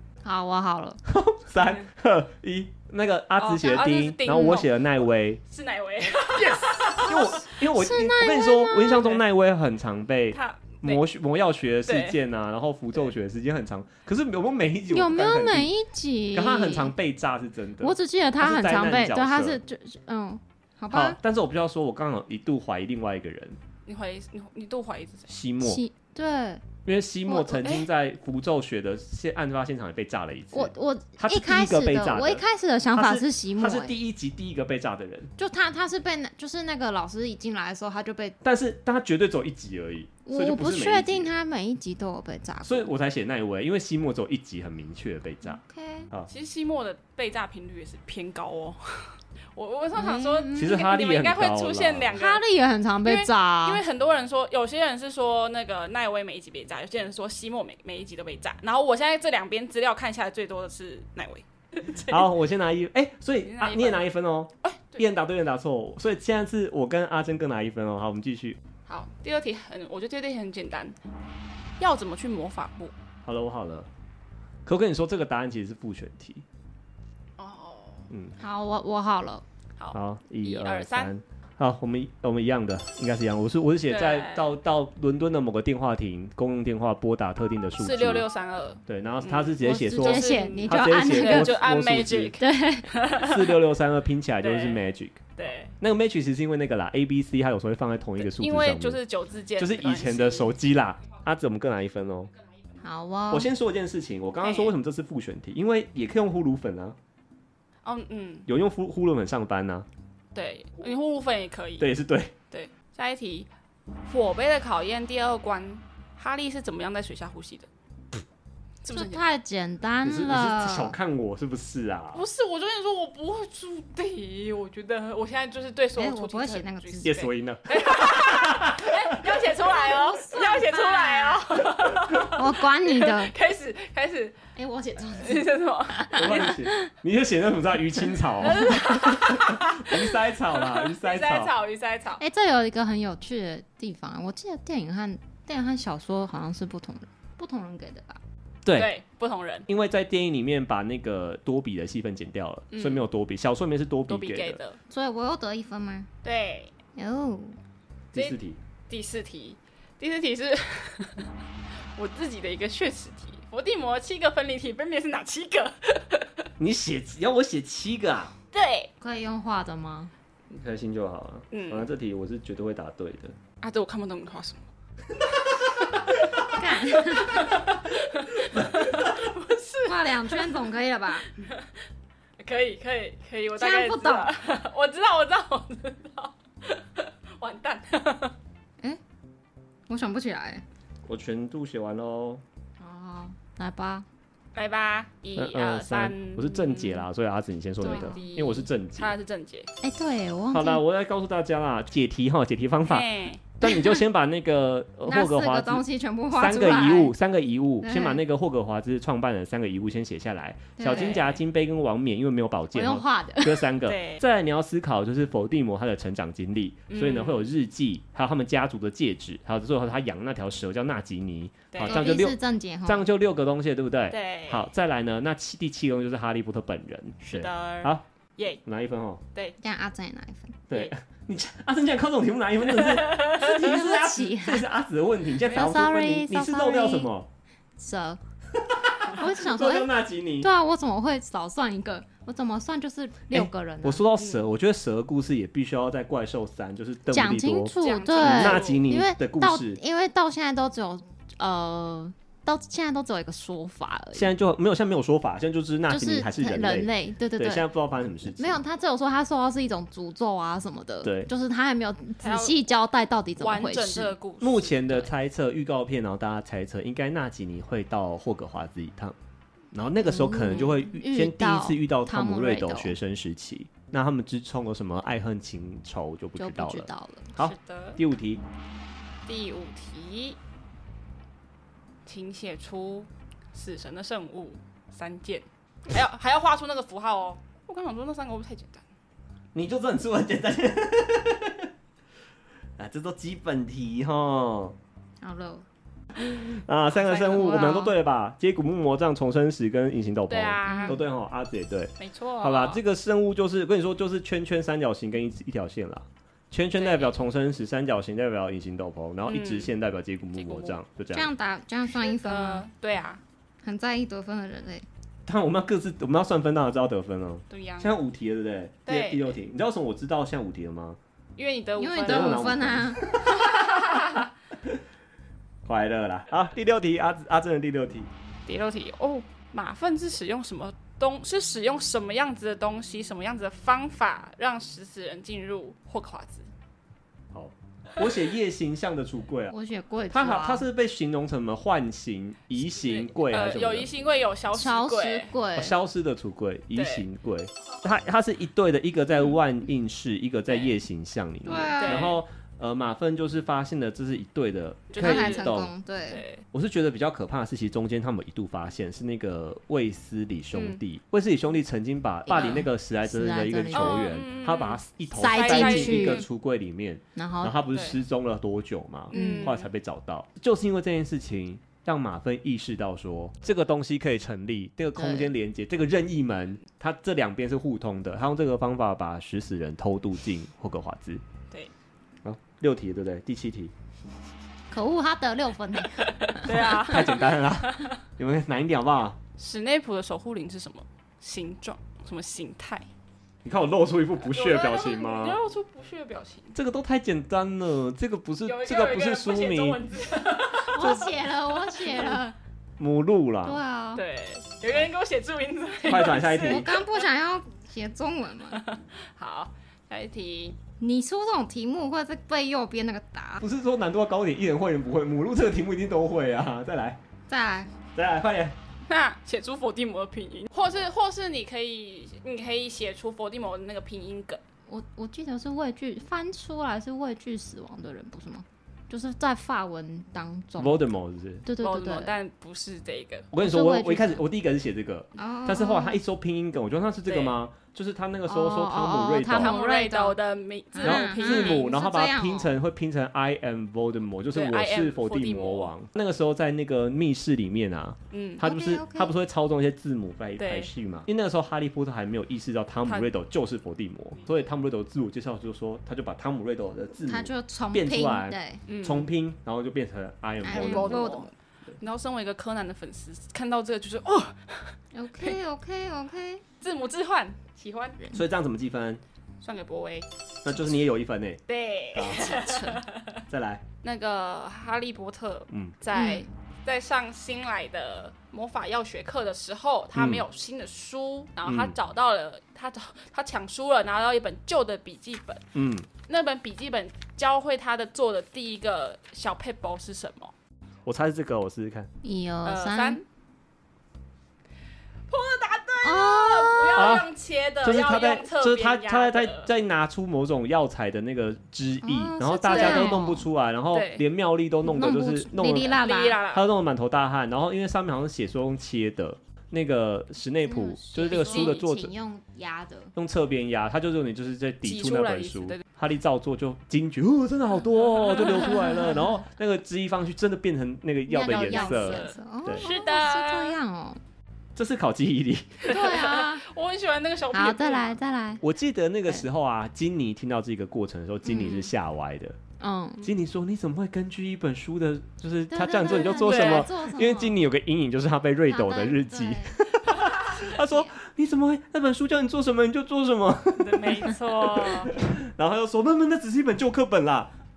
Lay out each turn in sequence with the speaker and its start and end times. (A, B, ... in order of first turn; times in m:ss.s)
0:00.2-0:01.0 A
0:01.1-0:05.4 B
0:03.4-0:04.8 C
0:04.3-0:04.6 A
0:05.5-0:07.4 C
0:06.4-0:15.7 B
0:07.1-0:09.2 A
0:10.3-0:11.0 C
0:11.9-0:12.2 C
0:14.9-0:16.9 A
0:16.3-0:19.6 B
0:17.8-0:21.2 A
0:20.9-0:23.6 B
0:23.9-0:25.3 C
0:25.3-0:25.8 B
0:25.6-0:26.7 A
0:26.8-0:35.3 B
0:27.3-0:27.8 A
0:30.5-0:34.0 A
0:35.4-0:38.4 A
0:38.4-0:41.3 B
0:40.3-0:42.9 A
0:42.6-0:46.3 B
0:45.4-0:46.1 A
0:46.3-0:52.4 C
0:49.9-0:50.8 A
0:50.6-0:52.2 B
0:52.2-0:53.8 A
0:53.0-1:02.3 C
1:02.1-1:08.6 B
1:03.4-1:04.0 C
1:04.6-1:05.1 C
1:08.9-1:11.0 C
1:11.8-1:12.9 C
1:13.2-1:13.9 B
1:14.6-1:16.4 B
1:17.4-1:18.1 C
1:18.1-1:18.4 B
1:18.4-1:19.4 A
1:19.8-1:21.1 C
1:19.9-1:28.2 B
1:23.9-1:24.6 C
1:27.8-1:33.6 C
1:28.9-1:32.4 B
1:29.9-1:31.6 A
1:32.4-1:32.9 A
1:33.2-1:35.2 B
1:34.4-1:34.8 C
1:35.4-1:35.7 C
1:35.8-1:39.0 B
1:38.2-1:40.6 C
1:39.6-1:42.3 B
1:42.5-1:42.8 C
1:42.8-1:43.5 A
1:43.3-1:47.0 B
1:44.4-1:44.7 C
1:47.8-1:48.5 C
1:48.5-1:49.9 B
1:50.3-1:51.9 C
1:51.8-1:52.3 B
1:52.5-1:53.5 C
1:54.1-1:57.7 C
1:58.8-1:59.2 C
1:58.9-2:01.0 A
2:00.0-2:02.2 B
2:02.1-2:14.4 C
2:06.0-2:07.1 A
2:07.0-2:09.2 B
2:09.8-2:11.5 A
2:12.2-2:13.3 A
2:14.6-2:16.8 A
2:15.2-2:16.5 C
2:16.1-2:21.5 B
2:18.4-2:20.0 C
2:18.4-2:19.2 A
2:20.5-2:22.2 C
2:22.2-2:28.2 A
2:28.6-2:28.9 B
2:28.7-2:29.7 C
2:29.7-2:34.6 B
2:32.7-2:33.0 C
2:34.1-2:34.8 C
2:34.9-2:36.1 A
2:36.2-2:36.7 C
2:37.0-2:37.6 A
2:38.1-2:38.6 B
2:38.9-2:41.3 C
2:42.0-2:46.5 C
2:46.6-2:48.3 B
2:48.5-2:48.9 C
2:49.0-2:50.1 A
2:50.5-2:53.4 B
2:51.5-2:51.9 C
2:53.6-2:54.6 C
2:56.5-2:57.6 A
2:57.0-3:00.6 C
2:58.5-2:59.1 B
2:59.9-3:01.3 A
3:01.4-3:01.7 C
3:02.4-3:08.4 C
3:03.6-3:04.3 A
3:09.9-3:10.6 A
3:11.1-3:12.4 B
3:12.8-3:14.1 A
3:14.6-3:17.1 C
3:15.4-3:19.1 B
3:17.8-3:19.7 C
3:17.8-3:18.2 A
3:19.8-3:20.8 A
3:20.5-3:48.0 B
3:22.9-3:23.4 C
3:23.6-3:24.0 A
3:25.1-3:27.1 A
3:26.5-3:27.0 C
3:27.8-3:28.2 A
3:30.8-3:31.2 A
3:30.9-3:31.4 C
3:32.7-3:33.7 A
3:33.9-3:34.2 C
3:36.9-3:37.5 C
3:41.7-3:42.1 C
3:41.8-3:43.1 A
3:44.1-3:44.7 C
3:47.2-3:48.6 C
3:48.6-3:49.2 B
3:49.6-3:50.6 A
3:50.7-3:57.3 B
3:53.4-3:54.7 A
3:55.5-3:57.1 A
3:57.8-3:58.2 A
3:58.6-4:00.5 B
3:59.1-4:04.0 A
4:03.3-4:09.8 B
4:04.2-4:04.5 C
4:07.1-4:14.3 A
4:07.8-4:08.8 C
4:14.2-4:18.6 B
4:15.9-4:17.7 A
4:18.4-4:24.2 A
4:21.0-4:21.3 B
4:22.2-4:22.7 C
4:23.4-4:25.1 C
4:24.4-4:29.2 B
4:29.7-4:38.4 B
4:30.0-4:33.0 A
4:36.4-4:37.3 A
4:37.4-4:38.0 C
4:39.3-4:40.4 C
4:42.1-4:48.8 C
4:49.6-4:51.7 B
4:52.8-4:54.8 B
4:55.2-4:55.7 A
4:56.2-5:11.3 B
4:57.0-4:57.8 C
4:57.1-4:57.9 A
5:00.3-5:01.0 C
5:00.6-5:01.0 A
5:02.0-5:02.8 C
5:06.8-5:07.1 C
5:09.3-5:09.7 C
5:10.4-5:10.8 C
5:11.1-5:12.7 A
5:12.0-5:13.2 C
5:13.6-5:14.8 A
5:15.3-5:21.0 B
5:17.5-5:17.9 C
5:18.9-5:19.4 C
5:21.4-5:22.6 C
5:21.8-5:23.0 A
5:22.0-5:24.0 B
5:23.5-5:24.0 C
5:25.7-5:28.1 B
5:28.5-5:36.5 C
5:37.3-5:39.6 B
5:39.5-5:40.7 A
5:40.1-5:43.9 B
5:42.6-5:45.4 C
5:44.5-5:45.8 A
5:45.6-5:55.7 B
5:46.8-5:47.1 C
5:51.5-5:52.2 A
5:51.7-5:52.2 C
5:54.9-5:55.6 C
5:55.0-5:56.2 A
5:56.1-5:56.4 C
5:56.5-6:21.2 B
6:00.5-6:00.8 C
6:02.3-6:04.1 A
6:03.7-6:06.3 C
6:05.1-6:06.3 A
6:07.2-6:07.6 A
6:07.7-6:08.0 C
6:09.1-6:09.7 C
6:09.1-6:09.6 A
6:15.0-6:15.3 A
6:22.2-6:23.7 B
6:24.7-6:26.7 A
6:26.0-6:27.9 C
6:26.4-6:29.2 B
6:29.4-6:32.9 C
6:33.4-6:35.4 B
6:34.2-6:36.6 C
6:36.5-6:39.8 B
6:38.4-6:41.0 C
6:40.6-6:42.4 A
6:40.8-6:41.0 B
6:41.8-6:42.1 C
6:42.8-6:43.6 B
6:43.4-6:44.0 A
6:44.0-6:46.9 C
6:45.8-6:46.7 B
6:46.1-6:48.6 A
6:48.5-6:50.6 C
6:50.8-6:53.4 A
6:53.4-6:57.0 B
6:57.3-6:57.7 A
6:57.9-6:58.6 B
6:58.9-7:04.4 C
7:04.7-7:10.8 A
7:10.6-7:11.5 B
7:11.4-7:12.2 A
7:11.6-7:13.3 C
7:13.3-7:19.5 B
7:13.4-7:14.2 A
7:15.2-7:16.0 A
7:17.1-7:17.4 C
7:18.3-7:20.2 A
7:19.3-7:21.7 C
7:20.7-7:22.6 A
7:20.8-7:41.1 B
7:24.3-7:25.7 C
7:28.1-7:28.4 C
7:28.4-7:29.1 A
7:30.4-7:30.7 C
7:37.0-7:38.6 A
7:38.7-7:39.1 C
7:40.4-7:41.3 A
7:40.5-7:41.3 C
7:41.8-7:45.4 C
7:44.9-7:46.4 A
7:46.6-7:48.0 C
7:48.1-7:49.0 B
7:49.4-7:50.1 C
7:50.4-7:51.4 B
7:51.5-7:53.2 C
7:51.9-7:52.4 B
7:52.1-7:52.8 A
7:53.3-7:53.6 B
7:53.8-8:05.4 C
7:55.9-7:56.3 A
8:00.0-8:00.2 B
8:01.4-8:01.8 B
8:05.5-8:05.9 B
8:06.1-8:10.3 C
8:10.9-8:11.9 B
8:12.0-8:13.0 A
8:12.4-8:13.0 C
8:15.1-8:19.5 C
8:15.8-8:17.0 A
8:16.8-8:17.1 B
8:17.6-8:25.8 B
8:21.8-8:23.3 A
8:22.5-8:23.0 C
8:23.7-8:24.0 C
8:24.6-8:26.2 A
8:25.6-8:26.4 C
8:26.3-8:31.9 B
8:30.4-8:33.0 A
8:31.1-8:31.6 C
8:33.0-8:42.6 B
8:34.6-8:35.6 C
8:38.1-8:38.4 C
8:38.5-8:39.1 A
8:41.1-8:44.0 A
8:41.2-8:43.6 C
8:44.6-8:45.7 B
8:45.6-8:48.0 C
8:45.7-8:46.4 A
8:47.3-8:48.4 A
8:48.4-8:52.4 B
8:51.2-8:51.7 A
8:52.6-8:53.1 A
8:53.0-9:07.3 B
8:55.5-8:57.4 A
8:56.1-8:56.7 C
8:58.5-8:59.6 A
9:00.3-9:00.9 A
9:03.6-9:04.9 C